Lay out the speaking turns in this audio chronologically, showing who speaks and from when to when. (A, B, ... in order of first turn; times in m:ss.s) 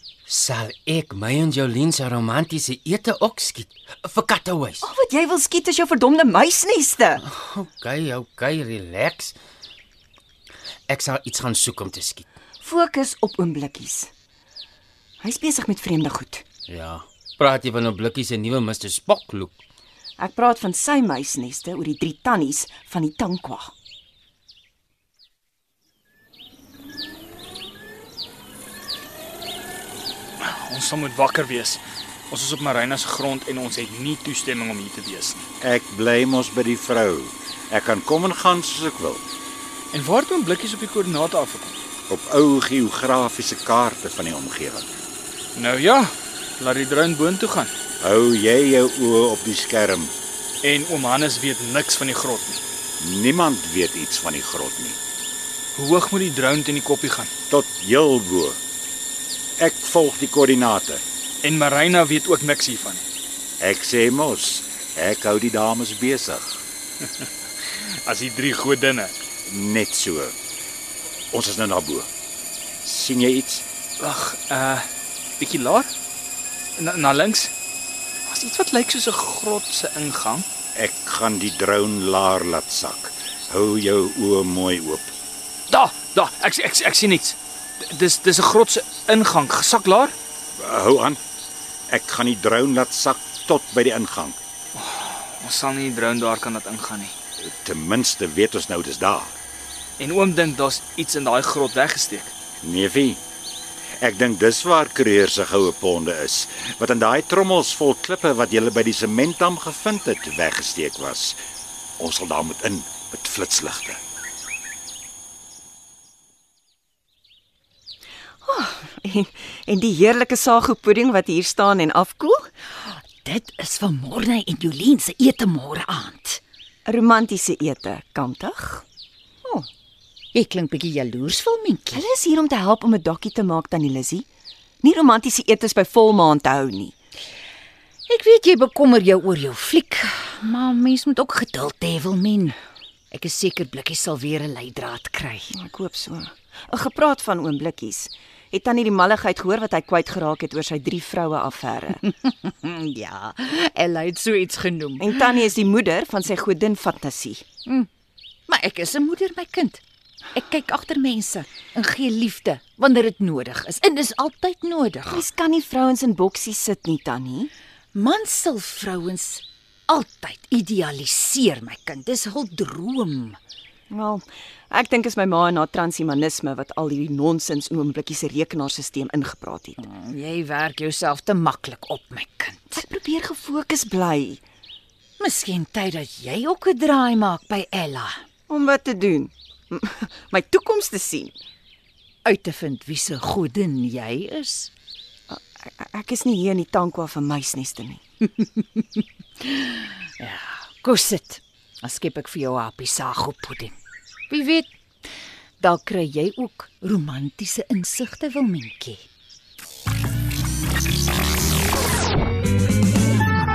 0:00.3-0:04.8 A
0:04.8-0:07.2 B
0:07.2-0:09.4 A
0:10.9-0:12.3 A
0:12.6-0:14.1 B
0:15.2-0:16.4 B
0:16.7-0:19.6 A
0:20.2-0:23.7 B
0:30.4-0:35.5 C
0:35.6-0:39.2 D
0:39.9-0:41.8 C
0:42.1-0:44.9 D
0:45.6-0:47.7 C
0:48.0-0:50.1 D
0:50.6-0:52.6 C
0:53.0-0:55.0 D
0:55.8-0:57.3 C
0:57.5-0:58.6 D
0:59.6-1:01.0 D
1:01.4-1:03.0 C
1:03.6-1:06.6 D
1:07.2-1:09.1 C
1:09.5-1:10.4 D
1:11.3-1:12.1 D
1:12.8-1:13.6 D
1:14.0-1:14.9 C
1:15.4-1:15.9 C
1:16.8-1:17.5 C
1:18.3-1:20.5 C
1:20.8-1:25.1 D
1:25.7-1:30.2 C
1:30.6-1:31.2 D
1:31.9-1:34.4 D
1:34.8-1:37.2 C
1:37.4-1:39.3 D
1:40.0-1:42.3 C
1:42.6-1:43.2 D
1:44.0-1:51.4 D
1:52.0-1:54.0 D
1:58.4-2:02.5 B
2:03.0-2:06.4 E
2:06.9-2:08.8 B
2:10.3-2:12.0 E
2:11.9-2:14.3 B
2:14.8-2:16.9 B
2:18.1-2:22.6 E
2:23.1-2:25.5 E
2:25.5-2:32.0 B
2:32.0-2:35.3 E
2:35.0-2:37.4 B
2:38.5-2:39.8 E
2:40.3-2:45.2 E
2:45.1-2:47.5 B
2:47.9-2:53.4 E
2:53.9-2:59.8 B
2:59.8-3:02.8 E
3:02.7-3:04.4 B
3:05.2-3:08.2 E
3:08.5-3:11.4 B
3:12.2-3:14.7 E
3:15.3-3:18.0 B
3:18.4-3:18.8 E
3:19.4-3:23.7 E
3:24.3-3:24.7 E
3:25.6-3:29.0 E